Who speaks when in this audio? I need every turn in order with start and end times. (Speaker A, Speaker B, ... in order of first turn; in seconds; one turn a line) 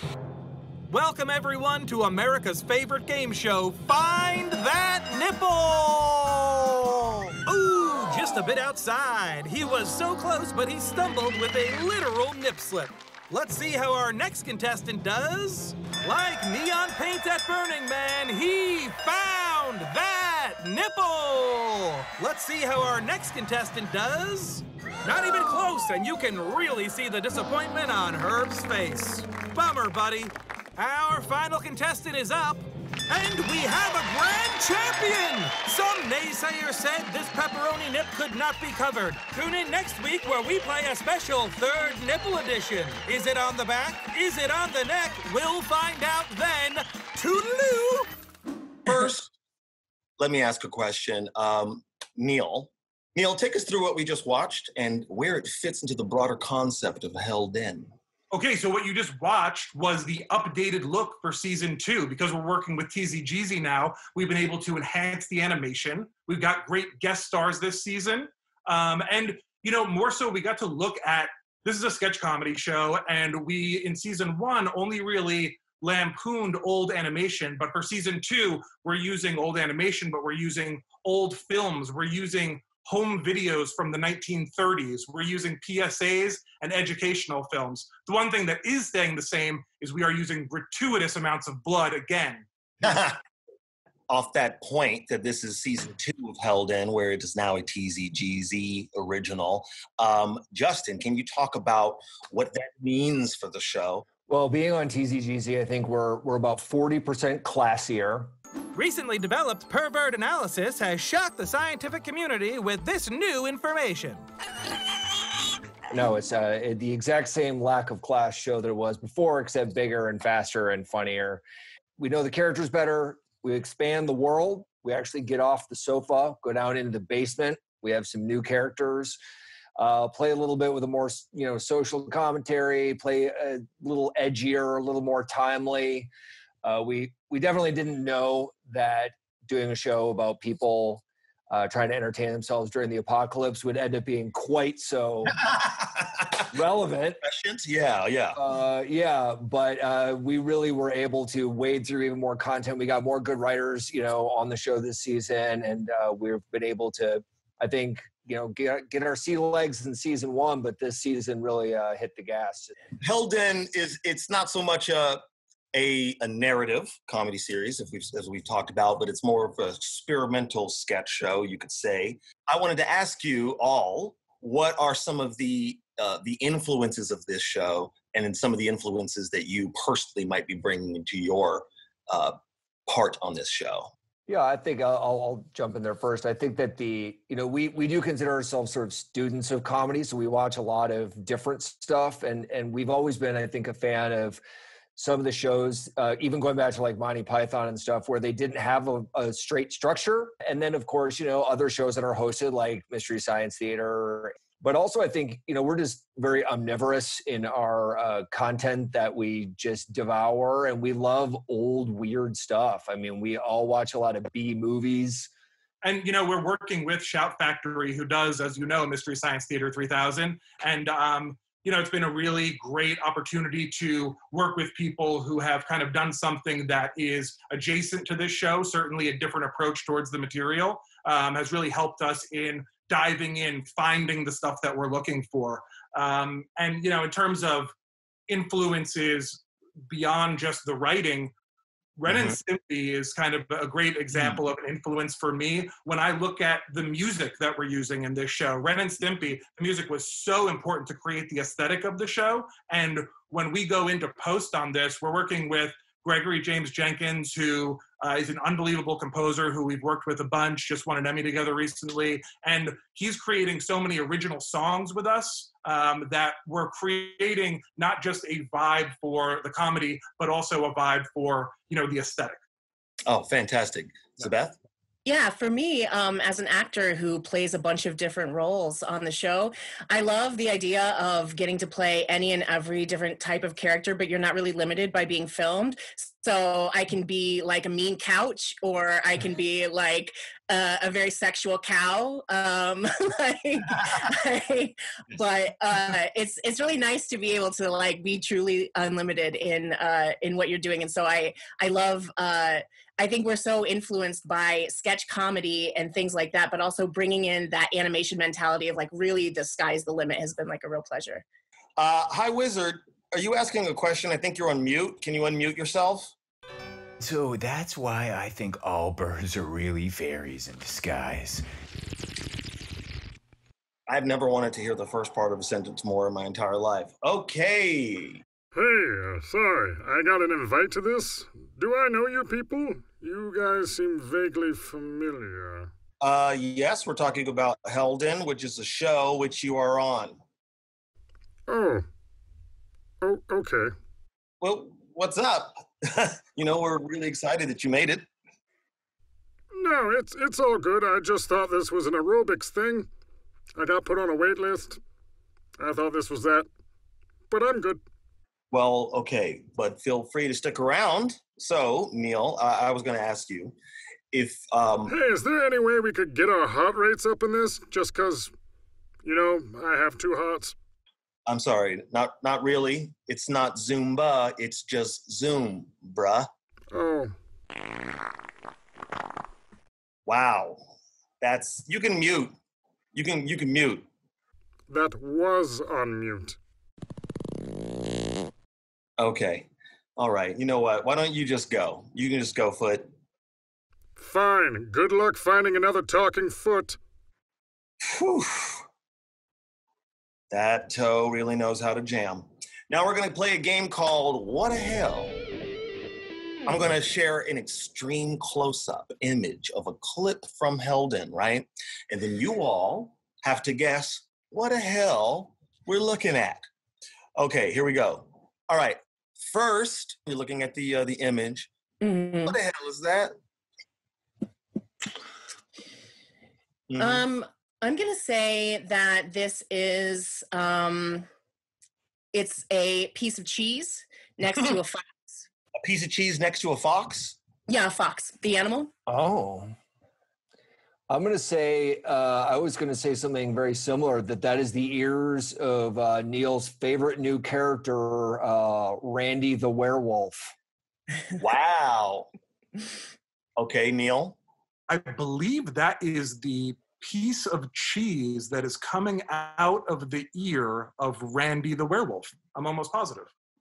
Speaker A: 0.9-48.1
Speaker B: 48.9-49.3
Speaker B: 50.2-57.9
Speaker C: 58.3-92.5
Speaker B: 92.8-93.2
Speaker B: 94.1-104.1
Speaker D: 104.3-108.3
Speaker A: 108.7-114.3
Speaker D: 115.9-121.4
Speaker D: 122.0-129.2
Speaker D: 129.8-136.1
Speaker D: 136.6-145.3
Speaker B: 145.4-146.3
Speaker D: 146.5-147.2
Speaker B: 147.2-148.4
Speaker D: 148.3-162.7
Speaker B: 163.0-182.4
Speaker B: 182.9-183.9
Speaker D: 184.3-194.4
Speaker D: 195.0-215.3
Speaker C: 215.8-237.7
Speaker C: 238.3-241.3
Speaker C: 242.0-272.4
Speaker B: 242.1-242.3
Speaker B: 244.1-244.4
Speaker B: 273.1-274.6
Speaker E: 275.1-311.2
Speaker B: 311.8-316.1
Speaker F: 317.0-321.4
Speaker B: 323.9-328.2
Speaker G: 328.5-335.7
Speaker B: 336.0-340.2
Speaker G: 341.5-341.9
Speaker G: 343.0-343.7
Speaker B: 344.4-348.1
Speaker G: 349.5-352.9
Speaker G: 353.6-354.8
Speaker G: 355.6-356.5
Speaker G: 357.3-357.8
Speaker B: 358.5-363.6
Speaker B: 364.1-364.9
Speaker G: 364.9-368.3
Speaker G: 369.0-370.6
Speaker B: 371.3-376.3
Speaker G: 376.7-377.2
Speaker B: 380.1-380.6
Speaker B: 381.2-382.4
Speaker B: 382.9-383.9
Speaker G: 384.7-386.4
Speaker B: 389.0-392.9
Speaker G: 394.0-396.8
Speaker B: 397.9-398.6
Speaker B: 400.3-405.2
Speaker B: 406.5-416.5
Speaker B: 417.2-421.5
Speaker E: 421.8-422.4
Speaker B: 422.3-423.1
Speaker B: 426.7-427.0
Speaker E: 426.8-431.1
Speaker E: 432.1-435.2
Speaker B: 435.6-437.2
Speaker E: 437.5-438.7
Speaker D: 438.9-439.5
Speaker D: 440.9-450.3
Speaker B: 451.2-452.1
Speaker B: 453.4-454.2
Speaker C: 454.7-463.1